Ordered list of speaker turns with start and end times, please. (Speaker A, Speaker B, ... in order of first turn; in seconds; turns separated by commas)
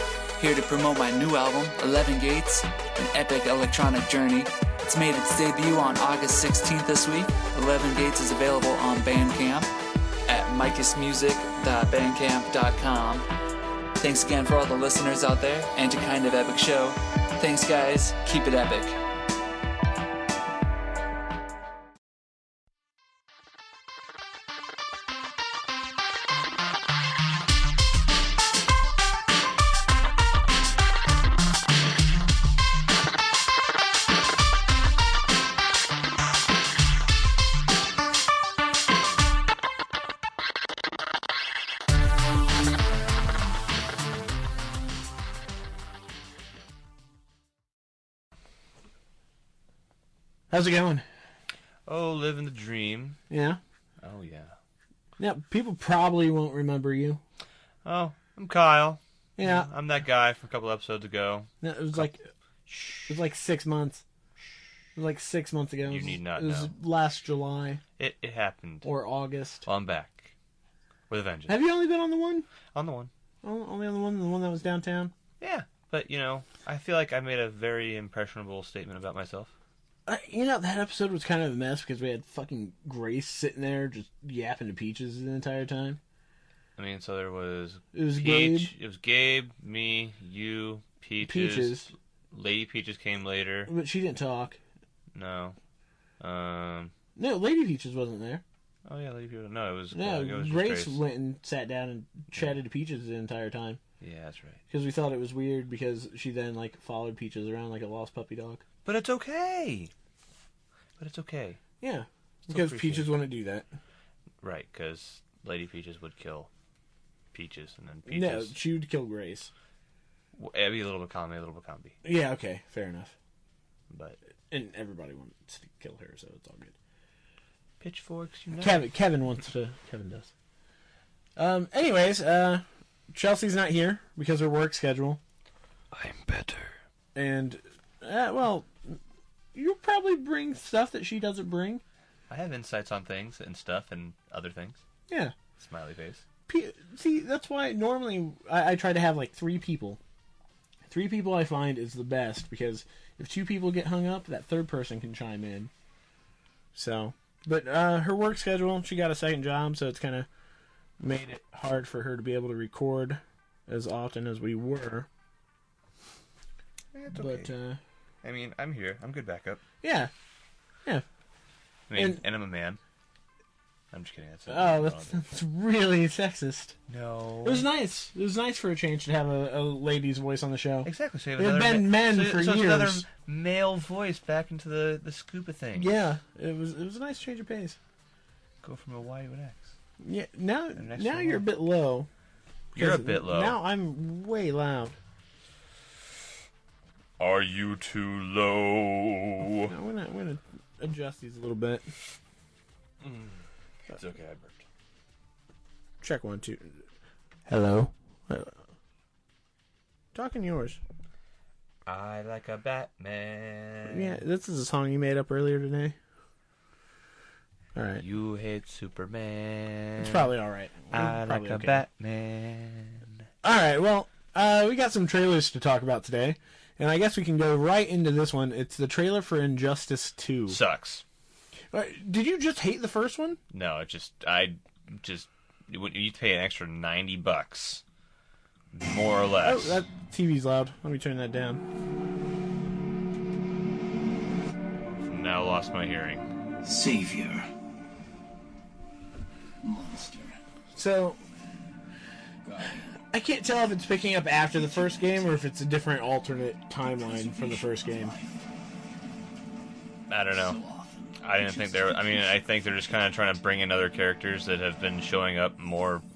Speaker A: 0.4-9.7, Speaker A: 10.3-13.2, Speaker A: 14.0-19.0, Speaker B: 50.5-51.0, Speaker C: 51.9-53.2, Speaker B: 53.3-53.6, Speaker C: 54.0-54.5, Speaker B: 55.2-57.2, Speaker C: 57.8-62.1, Speaker B: 59.4-59.7, Speaker B: 61.6-62.3, Speaker C: 62.7-63.2, Speaker B: 63.1-64.0, Speaker B: 65.0-67.8, Speaker C: 65.9-66.7, Speaker C: 68.0-68.9, Speaker B: 68.8-69.7, Speaker C: 69.6-70.3, Speaker C: 71.1-71.6, Speaker B: 71.5-72.5, Speaker C: 72.7-73.1, Speaker B: 73.4-75.1, Speaker C: 75.4-79.5, Speaker B: 80.0-86.0, Speaker C: 86.8-93.7, Speaker B: 87.9-88.7, Speaker B: 91.2-91.9, Speaker B: 93.7-94.6, Speaker C: 95.1-95.6, Speaker C: 96.2-96.9, Speaker B: 97.2-98.4, Speaker C: 98.8-101.0, Speaker B: 99.9-103.8, Speaker C: 104.0-104.6, Speaker B: 104.7-108.6, Speaker C: 108.8-109.9, Speaker C: 111.0-111.6, Speaker B: 111.8-113.7, Speaker C: 112.5-113.1, Speaker C: 114.4-116.5, Speaker C: 117.3-118.5, Speaker B: 118.1-119.5, Speaker C: 120.3-122.0, Speaker B: 122.0-123.1, Speaker C: 123.9-124.2, Speaker B: 124.5-126.8, Speaker C: 127.8-128.8, Speaker B: 128.6-130.3, Speaker B: 131.4-135.2, Speaker A: 135.9-136.7, Speaker B: 137.1-139.0, Speaker B: 139.5-141.8, Speaker C: 142.3-144.8, Speaker B: 145.1-145.3, Speaker C: 145.6-146.2, Speaker B: 146.5-150.0, Speaker B: 150.9-155.7, Speaker B: 156.7-160.3, Speaker B: 161.0-165.1, Speaker C: 166.9-167.5, Speaker B: 167.1-167.8, Speaker C: 168.2-169.6, Speaker B: 169.8-170.1, Speaker C: 171.9-172.8, Speaker B: 171.9-172.2, Speaker C: 173.9-175.2, Speaker B: 174.5-176.8, Speaker C: 176.9-177.7, Speaker B: 177.4-183.0, Speaker C: 180.8-185.9, Speaker B: 185.7-187.8, Speaker C: 188.6-189.7, Speaker B: 190.0-192.1, Speaker C: 190.7-191.5, Speaker C: 192.7-193.6, Speaker B: 192.7-194.9, Speaker C: 197.2-199.7, Speaker B: 199.7-201.9, Speaker C: 203.0-204.6, Speaker B: 206.0-206.8, Speaker B: 207.5-208.5, Speaker B: 210.1-210.8, Speaker C: 211.8-214.2, Speaker B: 213.8-215.9, Speaker B: 217.7-218.0, Speaker C: 218.0-220.3, Speaker B: 220.0-221.8, Speaker C: 220.9-223.2, Speaker B: 223.4-230.6, Speaker C: 230.5-231.0, Speaker B: 231.7-233.4, Speaker C: 233.5-237.8, Speaker C: 238.7-239.8, Speaker B: 239.4-241.6, Speaker C: 244.9-246.2, Speaker D: 246.6-247.5, Speaker D: 249.6-250.4, Speaker B: 250.7-251.2, Speaker D: 252.4-253.0, Speaker B: 253.1-258.1, Speaker D: 254.4-255.5, Speaker D: 256.8-258.8, Speaker C: 260.1-260.6, Speaker D: 260.3-262.5, Speaker C: 261.2-266.0